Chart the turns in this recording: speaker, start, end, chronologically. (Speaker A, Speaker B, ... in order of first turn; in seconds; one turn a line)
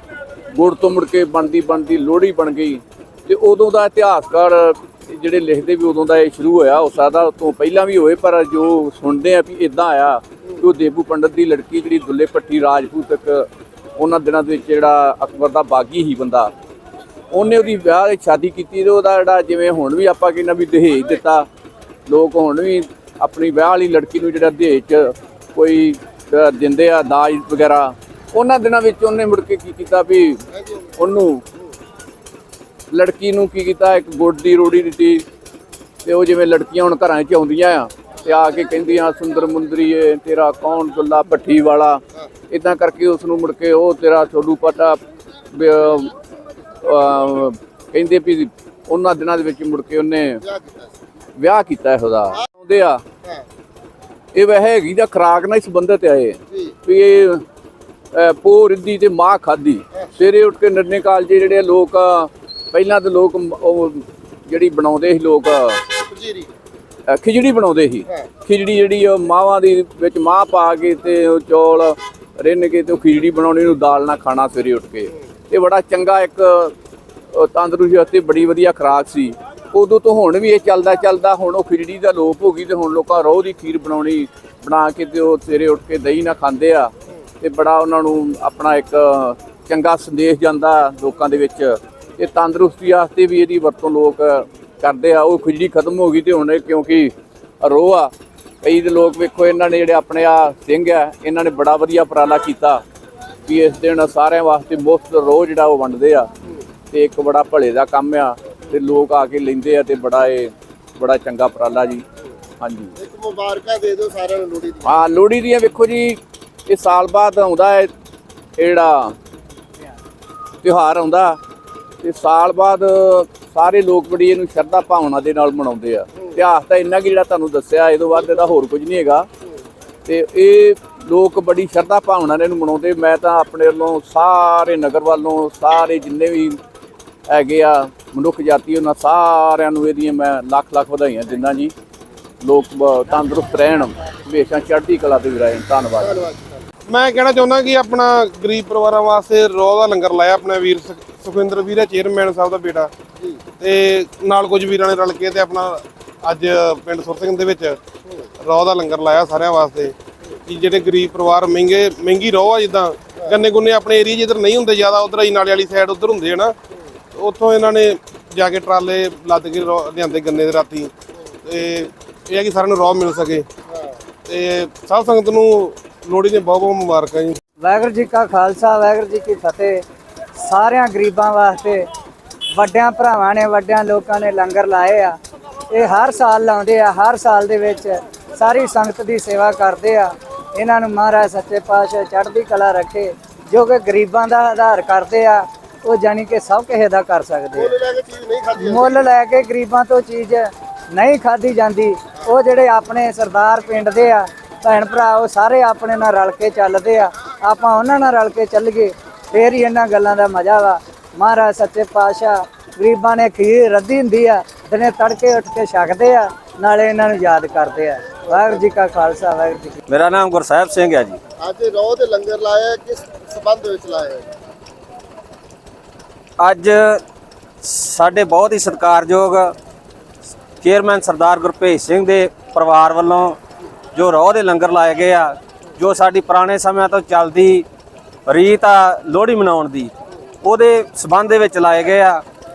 Speaker A: 0.5-16.5
Speaker A: 17.3-21.5
Speaker A: 22.1-30.4
Speaker A: 31.0-31.4
Speaker A: 32.9-35.3
Speaker A: 36.0-46.1
Speaker A: 46.8-50.4
Speaker B: 50.5-50.9
Speaker A: 51.4-53.0
Speaker A: 54.3-57.4
Speaker A: 58.1-65.8
Speaker B: 66.0-66.5
Speaker A: 67.1-76.7
Speaker A: 77.3-102.8
Speaker A: 103.5-106.3
Speaker A: 106.9-112.0
Speaker A: 112.6-112.9
Speaker B: 113.0-115.0
Speaker A: 114.8-117.9
Speaker A: 118.6-119.2
Speaker A: 120.6-121.4
Speaker A: 122.0-129.3
Speaker A: 130.1-136.6
Speaker A: 137.3-141.7
Speaker A: 142.4-146.3
Speaker B: 146.0-146.6
Speaker C: 146.9-152.9
Speaker C: 153.6-157.8
Speaker C: 158.4-159.9
Speaker C: 160.5-166.5
Speaker C: 167.2-170.9
Speaker C: 171.5-173.4
Speaker C: 174.3-177.3
Speaker D: 177.6-179.8
Speaker D: 180.4-181.8
Speaker D: 182.5-185.2
Speaker D: 185.7-197.7
Speaker B: 197.6-199.1
Speaker D: 198.6-219.8
Speaker B: 218.4-218.6
Speaker E: 219.9-221.2
Speaker B: 221.4-224.3
Speaker E: 226.4-227.0
Speaker E: 227.6-229.5
Speaker E: 230.6-233.4
Speaker E: 233.9-237.7
Speaker E: 238.3-239.9
Speaker E: 240.4-242.2